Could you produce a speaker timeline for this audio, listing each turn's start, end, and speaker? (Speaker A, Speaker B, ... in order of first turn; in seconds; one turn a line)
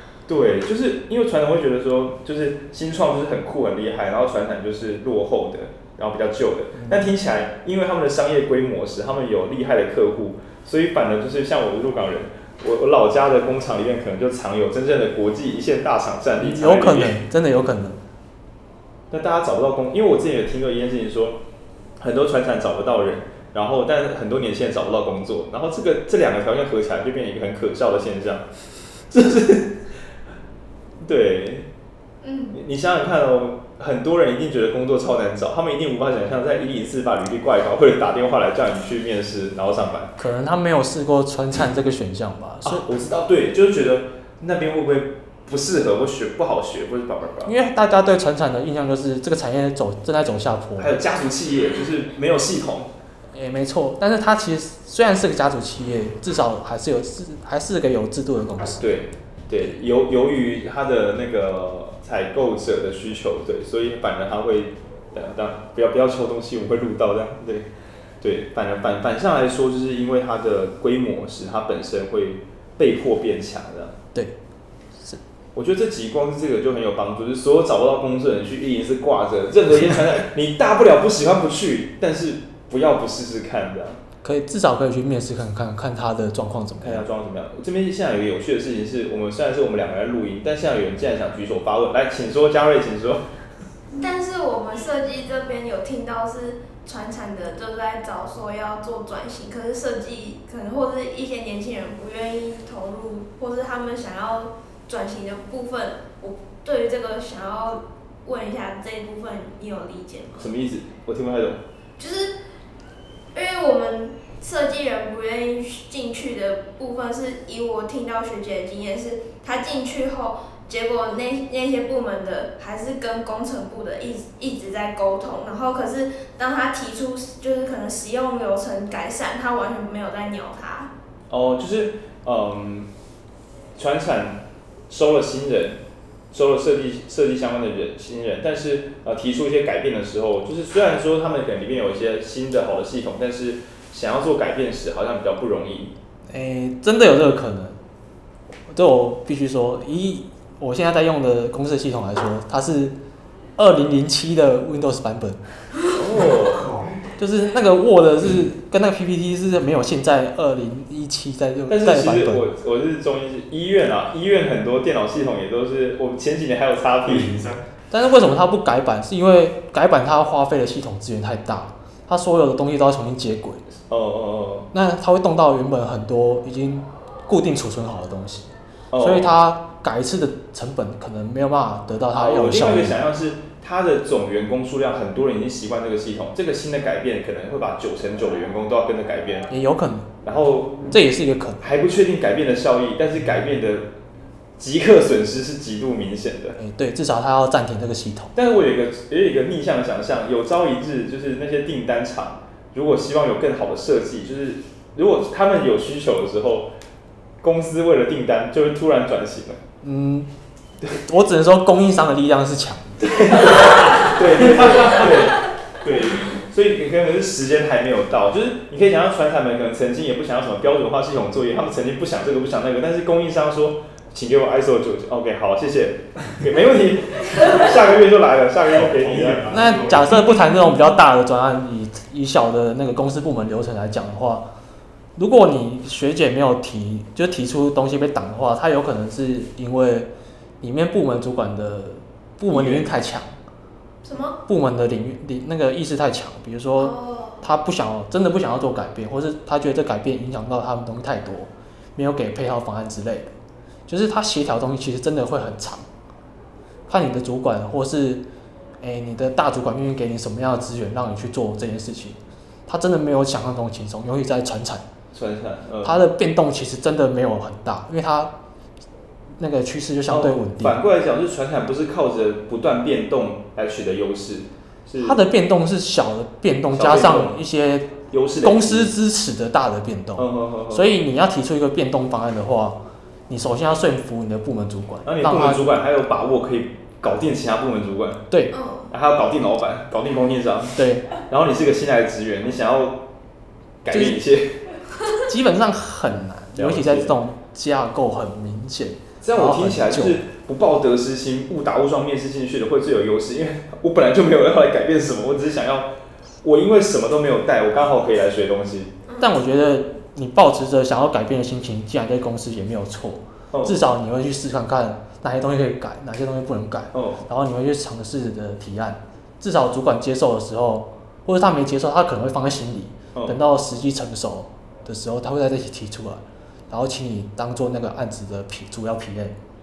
Speaker A: 0.3-17.2
Speaker B: 6.8-7.1
Speaker B: 16.4-18.0
Speaker A: 19.1-21.4
Speaker A: 22.0-28.4
Speaker A: 29.1-29.8
Speaker A: 31.0-31.7
Speaker C: 32.2-32.6
Speaker A: 32.5-40.1
Speaker B: 40.2-42.8
Speaker A: 42.6-47.5
Speaker B: 47.4-51.0
Speaker A: 50.8-52.9
Speaker B: 53.3-58.8
Speaker A: 58.8-67.7
Speaker A: 68.2-74.0
Speaker A: 75.5-84.0
Speaker B: 84.2-87.0
Speaker A: 86.8-93.2
Speaker C: 94.0-110.5
Speaker A: 110.4-111.6
Speaker C: 112.0-112.3
Speaker C: 113.3-130.9
Speaker A: 131.3-132.9
Speaker A: 133.8-135.8
Speaker A: 136.3-145.9
Speaker B: 146.3-147.8
Speaker B: 148.7-153.0
Speaker B: 153.6-155.4
Speaker A: 155.9-156.7
Speaker D: 156.5-156.9
Speaker B: 157.2-162.4
Speaker A: 161.7-167.3
Speaker D: 167.1-167.6
Speaker B: 167.9-173.6
Speaker A: 173.9-174.7
Speaker B: 174.7-183.0
Speaker A: 178.9-179.3
Speaker A: 182.1-189.5
Speaker B: 189.5-190.1
Speaker A: 190.2-190.8
Speaker B: 190.9-191.6
Speaker A: 191.6-193.9
Speaker A: 194.6-196.6
Speaker B: 196.6-198.3
Speaker A: 198.3-206.7
Speaker A: 207.4-209.6
Speaker B: 209.8-210.3
Speaker B: 210.9-213.1
Speaker A: 213.0-229.7
Speaker D: 228.8-230.2
Speaker B: 229.5-234.5
Speaker B: 235.2-240.1
Speaker B: 240.6-243.3
Speaker A: 242.5-242.9
Speaker C: 244.0-244.4
Speaker B: 244.4-253.3
Speaker C: 246.8-247.4
Speaker B: 253.9-255.9
Speaker B: 256.9-258.3
Speaker B: 258.8-264.8
Speaker A: 265.1-266.0
Speaker B: 265.8-268.3
Speaker B: 269.4-270.8
Speaker A: 270.1-275.2
Speaker B: 275.0-285.7
Speaker A: 276.7-277.4
Speaker A: 278.1-278.9
Speaker A: 280.1-280.9
Speaker A: 285.0-288.2
Speaker C: 288.5-288.9
Speaker A: 288.9-293.0
Speaker B: 290.8-291.1
Speaker A: 293.8-294.6
Speaker B: 293.9-294.2
Speaker B: 295.2-300.2
Speaker A: 296.6-297.1
Speaker A: 299.2-305.9
Speaker A: 306.4-308.9
Speaker B: 309.2-329.4
Speaker A: 313.5-313.9
Speaker A: 316.9-317.3
Speaker A: 323.1-323.4